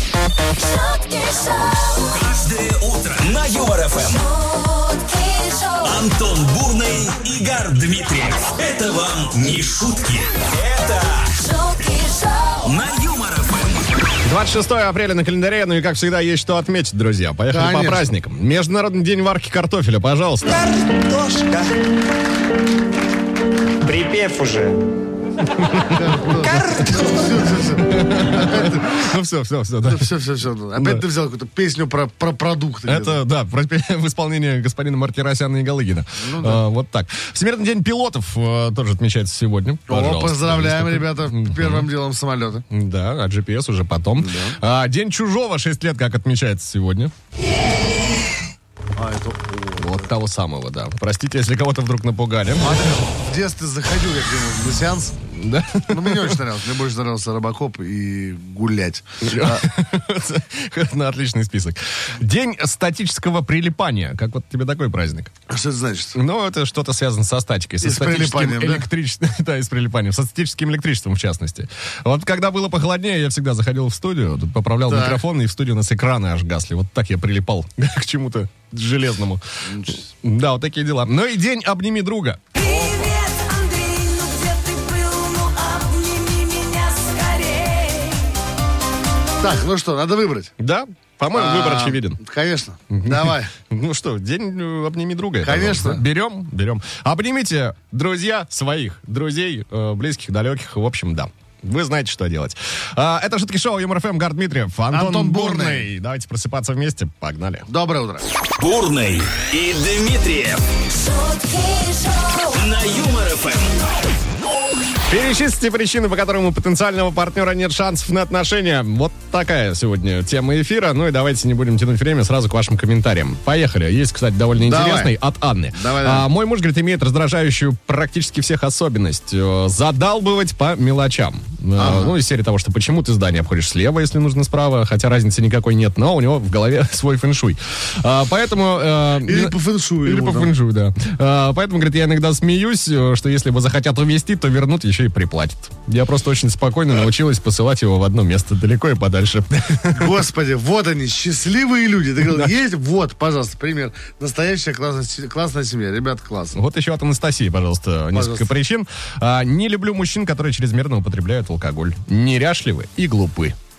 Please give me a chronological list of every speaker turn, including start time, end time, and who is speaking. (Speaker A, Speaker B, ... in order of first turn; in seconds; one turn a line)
Speaker A: 0.6-2.0
Speaker B: 2.1-4.2
Speaker A: 4.2-5.9
Speaker B: 5.8-11.3
Speaker A: 11.3-12.6
Speaker B: 12.6-13.9
Speaker C: 14.2-20.6
Speaker D: 17.5-18.1
Speaker E: 20.7-21.7
Speaker E: 23.8-24.9
Speaker C: 25.5-30.1
Speaker D: 25.9-29.0
Speaker D: 29.8-33.2
Speaker C: 30.8-31.0
Speaker C: 32.9-41.9
Speaker D: 36.2-36.6
Speaker D: 39.9-42.6
Speaker C: 42.7-47.1
Speaker D: 44.2-44.6
Speaker D: 49.0-50.1
Speaker C: 49.8-52.9
Speaker D: 52.6-55.2
Speaker C: 55.3-56.3
Speaker D: 55.9-59.7
Speaker C: 59.2-65.3
Speaker D: 65.5-66.2
Speaker C: 66.1-82.4
Speaker D: 67.8-68.8
Speaker D: 74.9-75.2
Speaker D: 79.7-80.0
Speaker A: 82.5-88.3
Speaker D: 82.6-83.1
Speaker D: 89.4-90.5
Speaker C: 90.6-92.2
Speaker D: 91.3-93.5
Speaker C: 92.9-107.7
Speaker D: 95.4-96.0
Speaker D: 104.9-105.9
Speaker D: 107.7-108.2
Speaker B: 108.6-110.6
Speaker A: 110.9-112.5
Speaker B: 112.5-113.8
Speaker C: 115.1-150.1
Speaker D: 124.6-125.2
Speaker D: 125.7-126.3
Speaker D: 131.8-132.1
Speaker D: 139.2-140.5
Speaker D: 149.9-156.6
Speaker C: 156.5-163.5
Speaker D: 158.1-158.5